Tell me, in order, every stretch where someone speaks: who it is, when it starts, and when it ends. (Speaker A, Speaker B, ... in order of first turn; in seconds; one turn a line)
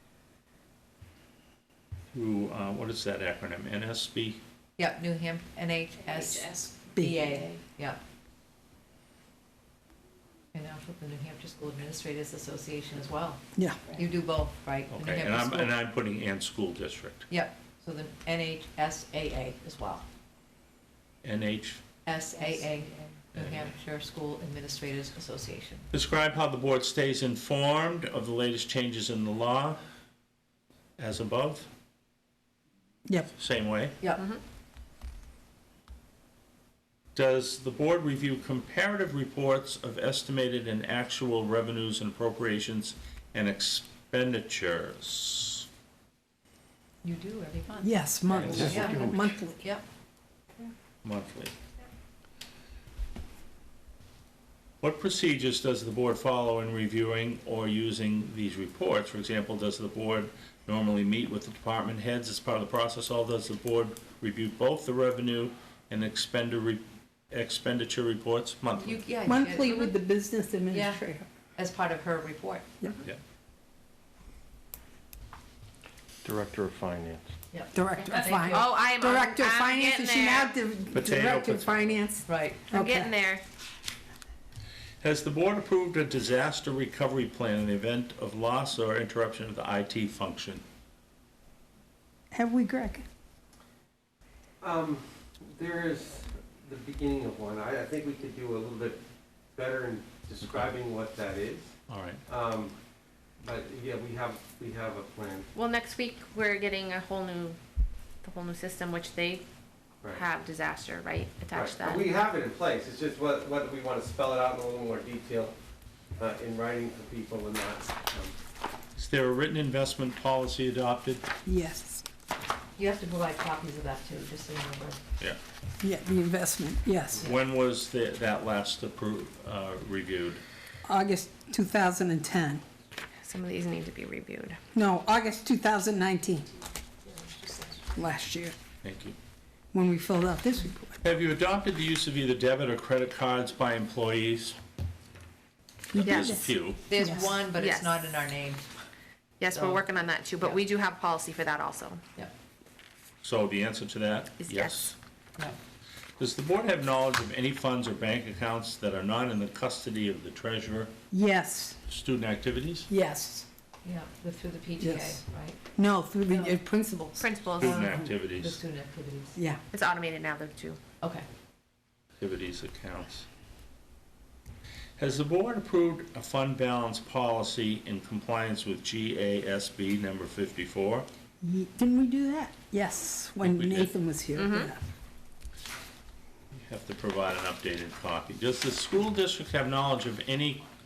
Speaker A: 2.1-4.4
Speaker B: 4.8-8.0
Speaker C: 6.1-6.8
Speaker B: 10.5-15.8
Speaker D: 13.6-13.8
Speaker A: 14.9-17.3
Speaker B: 17.3-20.0
Speaker A: 21.2-21.8
Speaker B: 22.1-25.9
Speaker A: 23.3-23.7
Speaker A: 25.9-29.8
Speaker A: 31.0-31.7
Speaker A: 33.4-34.0
Speaker A: 37.1-45.7
Speaker B: 47.0-49.8
Speaker D: 47.8-49.6
Speaker A: 48.3-48.7
Speaker E: 48.4-49.3
Speaker A: 51.0-51.5
Speaker A: 54.8-69.1
Speaker B: 68.7-70.0
Speaker D: 69.2-71.3
Speaker B: 70.7-71.0
Speaker B: 71.6-72.7
Speaker E: 76.2-77.3
Speaker B: 77.5-78.8
Speaker D: 77.7-83.1
Speaker C: 78.0-80.5
Speaker A: 80.9-82.0
Speaker B: 82.2-82.7
Speaker C: 82.7-83.4
Speaker A: 85.0-90.6
Speaker D: 92.3-93.0
Speaker E: 94.6-99.0
Speaker E: 99.5-101.7
Speaker A: 100.4-100.8
Speaker A: 101.9-102.2
Speaker E: 102.3-102.8
Speaker E: 103.4-105.5
Speaker C: 105.5-107.6
Speaker C: 108.2-109.5
Speaker C: 110.1-112.1
Speaker E: 111.5-115.5
Speaker E: 116.2-118.3
Speaker A: 119.0-121.3
Speaker D: 121.5-122.1
Speaker B: 122.8-125.0
Speaker D: 125.8-127.2
Speaker A: 127.2-130.4
Speaker D: 130.8-132.6
Speaker C: 133.2-134.6
Speaker D: 134.8-136.5
Speaker C: 137.2-137.8
Speaker D: 137.9-138.6
Speaker A: 138.8-139.2
Speaker D: 139.7-141.0
Speaker A: 141.0-144.6
Speaker D: 145.9-147.4
Speaker A: 146.0-146.9
Speaker C: 146.0-146.3
Speaker B: 146.9-148.6
Speaker C: 147.6-147.9
Speaker C: 149.4-152.0
Speaker B: 149.5-149.8
Speaker A: 153.2-155.0
Speaker C: 154.4-154.8
Speaker A: 156.2-160.9
Speaker D: 161.1-161.8
Speaker A: 161.9-162.9
Speaker D: 162.9-163.5
Speaker B: 163.8-165.6
Speaker D: 164.8-165.2
Speaker D: 165.8-167.4
Speaker B: 166.3-166.6
Speaker C: 167.2-167.8
Speaker A: 167.6-168.6
Speaker B: 167.6-169.4
Speaker D: 169.3-169.6
Speaker C: 169.7-170.8
Speaker B: 171.0-171.2
Speaker A: 172.2-173.3
Speaker A: 175.0-181.1
Speaker D: 181.4-184.8
Speaker A: 183.4-183.9
Speaker C: 184.3-184.7
Speaker A: 186.5-190.6